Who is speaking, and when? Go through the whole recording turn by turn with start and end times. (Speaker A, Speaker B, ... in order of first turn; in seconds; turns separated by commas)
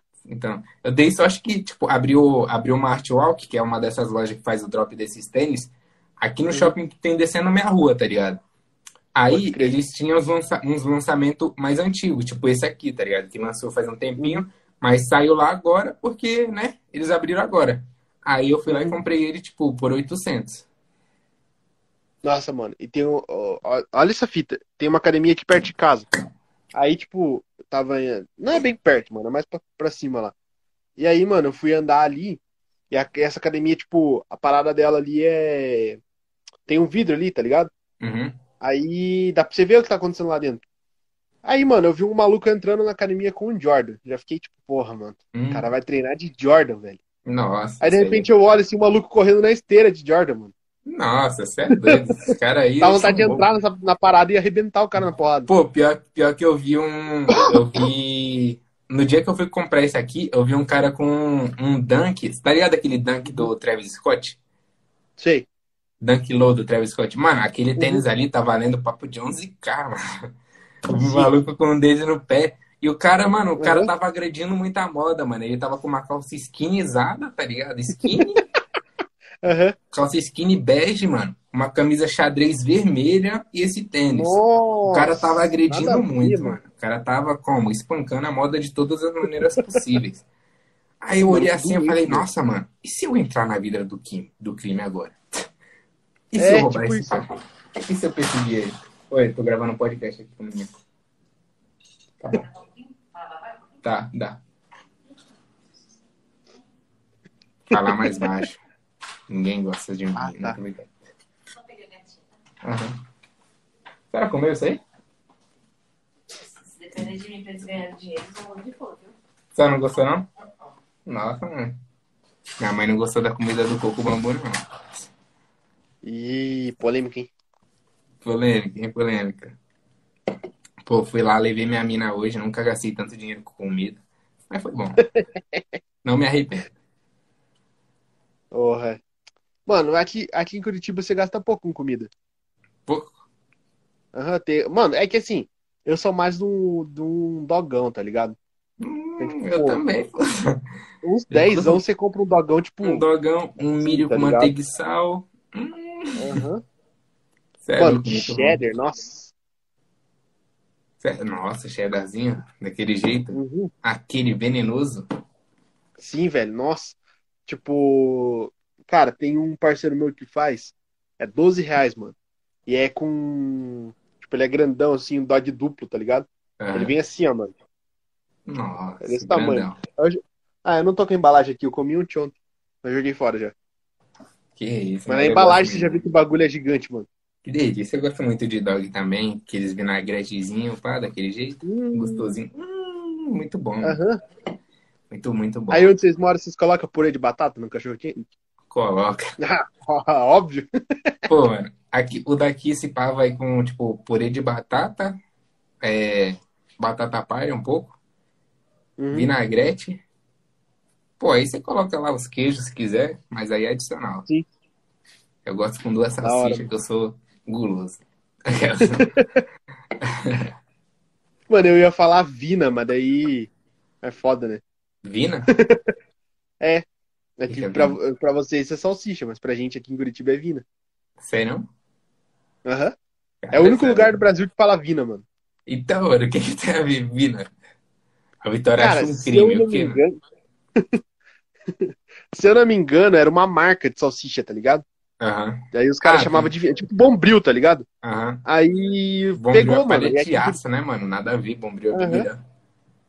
Speaker A: 0.2-8.4, Speaker A: 9.1-20.6, Speaker B: 9.3-9.7, Speaker B: 14.2-14.4, Speaker B: 18.7-19.0, Speaker B: 22.2-26.1, Speaker B: 26.7-30.3, Speaker B: 31.0-36.0, Speaker B: 36.7-37.7, Speaker A: 38.0-38.4, Speaker B: 38.6-40.6, Speaker B: 41.4-47.0, Speaker A: 45.3-45.6, Speaker A: 47.2-48.3, Speaker B: 47.8-50.5, Speaker A: 50.9-53.5, Speaker B: 51.8-52.2, Speaker B: 52.8-55.5, Speaker A: 55.5-64.4, Speaker B: 65.2-65.5, Speaker A: 66.0-70.3, Speaker B: 67.8-68.0, Speaker A: 70.9-78.4, Speaker B: 70.9-71.3, Speaker B: 73.6-73.9, Speaker B: 79.4-79.8, Speaker A: 79.9-90.2, Speaker B: 84.1-86.6, Speaker A: 91.0-95.2, Speaker B: 91.3-92.2, Speaker A: 96.3-97.3, Speaker B: 96.3-97.2, Speaker A: 97.8-100.8, Speaker A: 103.8-104.4, Speaker A: 107.7-108.6, Speaker A: 109.3-110.9, Speaker B: 110.2-110.6, Speaker C: 111.7-112.1, Speaker A: 112.6-113.0, Speaker A: 114.1-114.8, Speaker C: 116.5-119.1, Speaker A: 119.5-120.3, Speaker A: 121.0-121.8, Speaker A: 122.6-124.7, Speaker B: 126.0-127.3, Speaker A: 128.2-129.6, Speaker A: 130.8-135.0, Speaker B: 135.2-135.6, Speaker A: 136.0-136.7, Speaker B: 138.5-139.0, Speaker B: 139.7-142.1, Speaker A: 142.9-143.2, Speaker B: 144.1-148.4, Speaker A: 148.8-150.7, Speaker B: 149.2-149.8, Speaker B: 151.0-153.0, Speaker A: 151.3-151.8, Speaker A: 152.8-156.4, Speaker B: 153.8-154.5, Speaker B: 156.2-156.6, Speaker A: 157.6-158.6, Speaker B: 157.8-159.3, Speaker A: 161.0-165.1, Speaker B: 163.3-163.7, Speaker B: 166.0-172.1, Speaker B: 172.7-177.5, Speaker A: 176.6-176.9, Speaker A: 178.4-179.8, Speaker B: 179.0-183.5, Speaker A: 184.6-186.0, Speaker B: 185.1-187.1, Speaker A: 187.4-194.0, Speaker B: 191.6-192.3, Speaker B: 193.8-194.2, Speaker A: 195.1-195.9, Speaker B: 195.7-198.3, Speaker A: 198.7-199.3, Speaker B: 199.4-200.7, Speaker A: 201.3-205.2, Speaker A: 205.8-207.9, Speaker B: 209.0-209.3, Speaker A: 209.1-210.0, Speaker A: 211.2-214.2, Speaker A: 215.4-219.1, Speaker B: 216.2-216.7, Speaker B: 218.8-219.4, Speaker A: 220.0-220.5, Speaker B: 221.5-223.5, Speaker B: 224.0-224.6, Speaker A: 225.0-225.5, Speaker B: 225.5-225.9, Speaker B: 227.4-230.6, Speaker A: 227.5-228.0, Speaker A: 231.2-231.7, Speaker B: 232.6-232.9, Speaker A: 233.4-234.2, Speaker B: 233.5-235.2, Speaker A: 235.7-237.5, Speaker A: 238.4-240.0, Speaker B: 238.8-240.2, Speaker B: 241.8-244.8, Speaker A: 245.2-246.5, Speaker B: 245.7-247.8, Speaker A: 248.0-248.4, Speaker B: 248.4-250.6, Speaker A: 249.3-252.4, Speaker B: 251.9-252.3